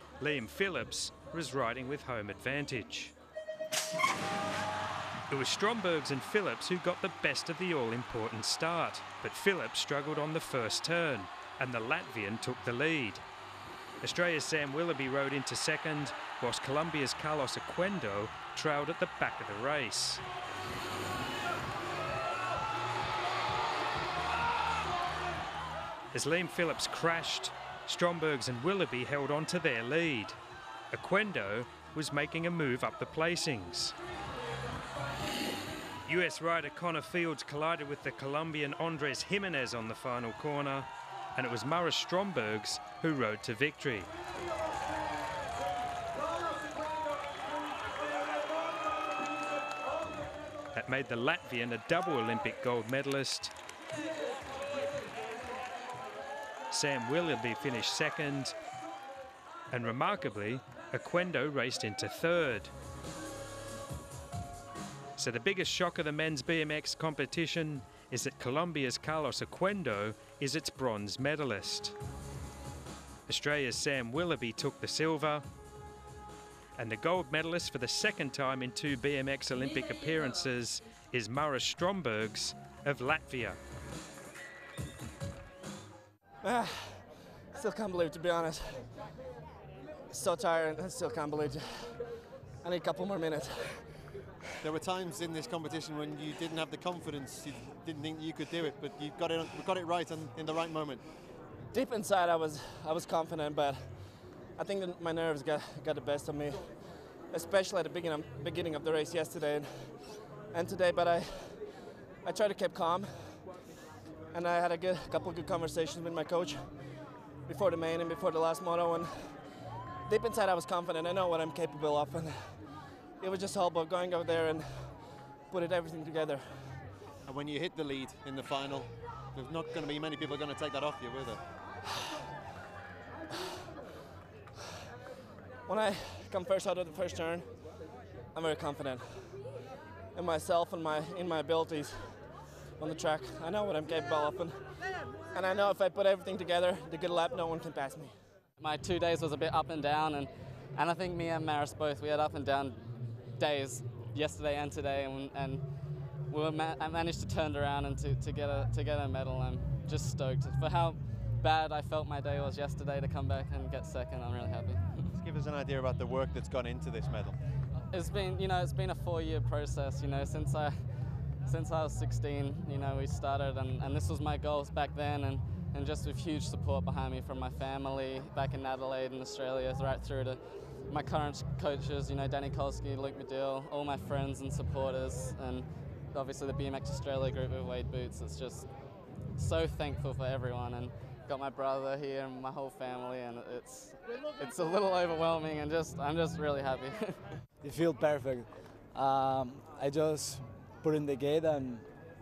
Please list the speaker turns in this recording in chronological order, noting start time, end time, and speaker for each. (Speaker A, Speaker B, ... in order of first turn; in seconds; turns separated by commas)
Speaker A: 0.2-3.1, Speaker A: 5.3-13.2, Speaker A: 14.0-20.2, Speaker A: 26.1-30.4, Speaker A: 30.9-33.9, Speaker A: 36.0-44.1, Speaker A: 50.7-53.5, Speaker A: 56.7-58.5, Speaker A: 59.7-62.7, Speaker A: 65.2-71.9, Speaker A: 73.3-75.4, Speaker A: 76.8-83.6, Speaker B: 86.4-88.9, Speaker B: 90.1-92.0, Speaker B: 92.6-94.2, Speaker C: 94.6-101.0, Speaker B: 101.7-111.6, Speaker B: 112.2-113.5, Speaker B: 114.3-116.7, Speaker B: 117.5-119.5, Speaker B: 120.0-122.6, Speaker B: 123.2-126.8, Speaker C: 127.2-131.4, Speaker B: 135.7-137.7, Speaker B: 138.3-139.5, Speaker B: 140.1-144.6, Speaker B: 145.3-148.1, Speaker D: 148.6-155.7, Speaker D: 156.2-165.1, Speaker C: 165.1-167.4, Speaker D: 167.9-197.4, Speaker E: 197.6-201.9